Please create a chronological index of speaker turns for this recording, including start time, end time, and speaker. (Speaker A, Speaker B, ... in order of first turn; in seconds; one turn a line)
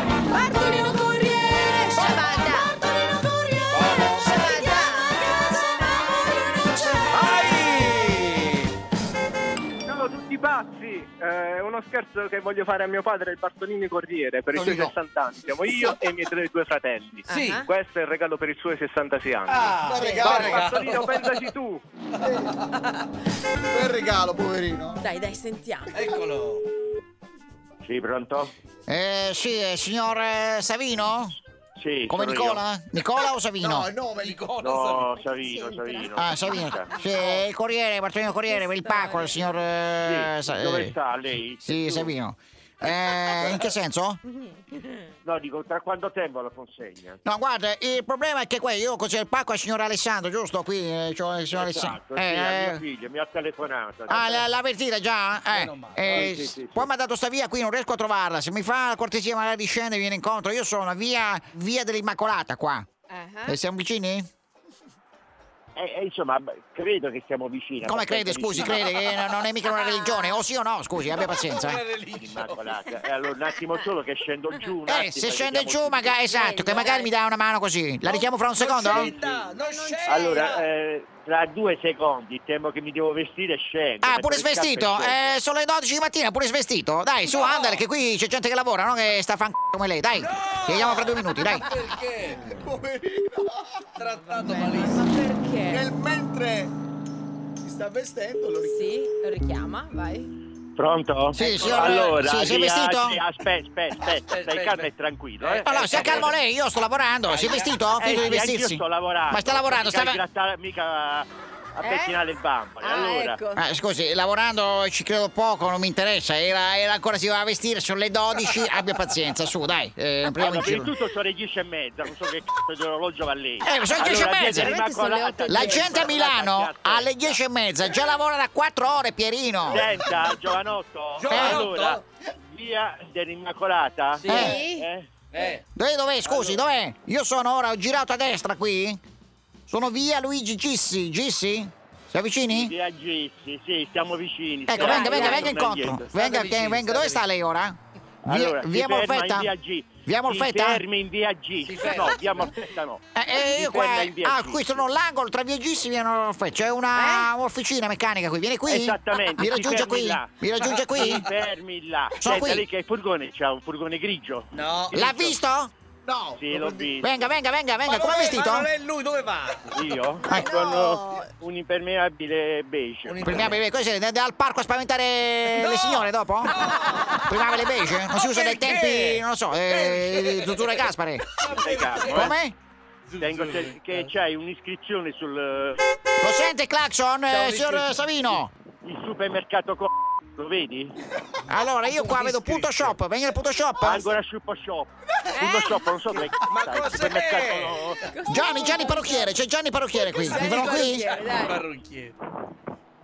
Speaker A: 0.2-5.6
Speaker B: 3.7-4.5
Speaker B: 7.1-8.7
Speaker C: 9.9-21.8
Speaker D: 14.5-14.9
Speaker A: 17.3-17.7
Speaker B: 17.3-17.6
Speaker B: 19.5-21.5
Speaker D: 19.8-20.6
Speaker A: 19.9-20.3
Speaker D: 22.2-22.6
Speaker A: 22.7-23.1
Speaker D: 23.7-25.0
Speaker A: 25.0-25.9
Speaker B: 25.9-26.7
Speaker E: 27.8-28.5
Speaker F: 28.9-31.4
Speaker E: 31.8-32.6
Speaker F: 32.1-33.9
Speaker D: 33.6-34.4
Speaker B: 34.2-35.2
Speaker E: 34.6-36.9
Speaker A: 35.5-36.0
Speaker F: 36.1-41.0
Speaker A: 38.5-39.6
Speaker E: 40.0-42.1
Speaker F: 41.6-44.2
Speaker A: 44.3-44.9
Speaker E: 45.2-47.2
Speaker F: 47.2-52.8
Speaker E: 51.5-54.5
Speaker F: 54.1-62.9
Speaker B: 55.5-56.3
Speaker E: 56.0-56.9
Speaker A: 63.1-63.6
Speaker F: 63.5-64.3
Speaker E: 65.8-69.1
Speaker F: 67.8-71.8
Speaker A: 69.7-70.4
Speaker B: 71.1-72.6
Speaker E: 72.1-76.2
Speaker F: 74.8-79.1
Speaker A: 76.3-77.1
Speaker B: 78.1-80.7
Speaker E: 78.8-79.2
Speaker A: 79.2-80.5
Speaker E: 80.0-85.3
Speaker F: 84.0-91.7
Speaker B: 87.2-87.8
Speaker B: 90.1-92.5
Speaker D: 92.4-93.9
Speaker B: 94.0-95.1
Speaker A: 94.3-95.9
Speaker D: 95.7-96.7
Speaker D: 97.6-98.9
Speaker A: 98.7-100.3
Speaker E: 100.8-106.3
Speaker F: 101.3-103.2
Speaker A: 101.4-101.8
Speaker B: 104.3-104.9
Speaker B: 105.4-106.3
Speaker F: 105.6-110.2
Speaker B: 107.2-107.8
Speaker E: 107.9-113.4
Speaker A: 111.8-112.3
Speaker A: 112.8-113.6
Speaker F: 113.5-120.9
Speaker E: 120.3-127.4
Speaker F: 123.6-124.8
Speaker A: 124.4-126.1
Speaker F: 125.5-129.9
Speaker E: 129.6-135.1
Speaker B: 131.2-132.0
Speaker F: 131.3-131.6
Speaker A: 134.2-134.9
Speaker F: 134.3-134.7
Speaker B: 135.3-135.6
Speaker F: 135.7-139.0
Speaker E: 136.2-136.6
Speaker F: 139.7-142.7
Speaker E: 142.5-146.1
Speaker F: 144.7-149.5
Speaker B: 144.7-145.5
Speaker B: 146.1-147.2
Speaker E: 148.2-154.9
Speaker F: 150.1-150.8
Speaker B: 151.6-152.2
Speaker F: 153.1-161.2
Speaker A: 156.9-157.3
Speaker E: 158.7-164.5
Speaker B: 160.9-161.3
Speaker F: 162.2-162.7
Speaker B: 164.5-165.1
Speaker F: 164.9-165.7
Speaker E: 165.0-165.3
Speaker D: 166.1-166.9
Speaker E: 166.3-167.1
Speaker F: 167.0-168.7
Speaker B: 167.8-170.0
Speaker E: 169.7-173.5
Speaker A: 170.2-171.3
Speaker B: 173.1-173.6
Speaker F: 173.2-176.6
Speaker B: 175.8-177.2
Speaker F: 177.2-181.2
Speaker B: 178.1-182.3
Speaker E: 181.6-182.4
Speaker F: 181.9-182.5
Speaker B: 183.1-184.1
Speaker E: 183.2-185.8
Speaker F: 186.2-188.5
Speaker B: 187.3-188.4
Speaker E: 188.8-191.0
Speaker F: 191.5-194.1
Speaker B: 192.0-192.9
Speaker E: 193.8-198.0
Speaker A: 195.3-195.8
Speaker B: 196.2-198.0
Speaker A: 198.0-199.4
Speaker F: 198.3-201.1
Speaker A: 200.0-201.6
Speaker B: 200.4-202.1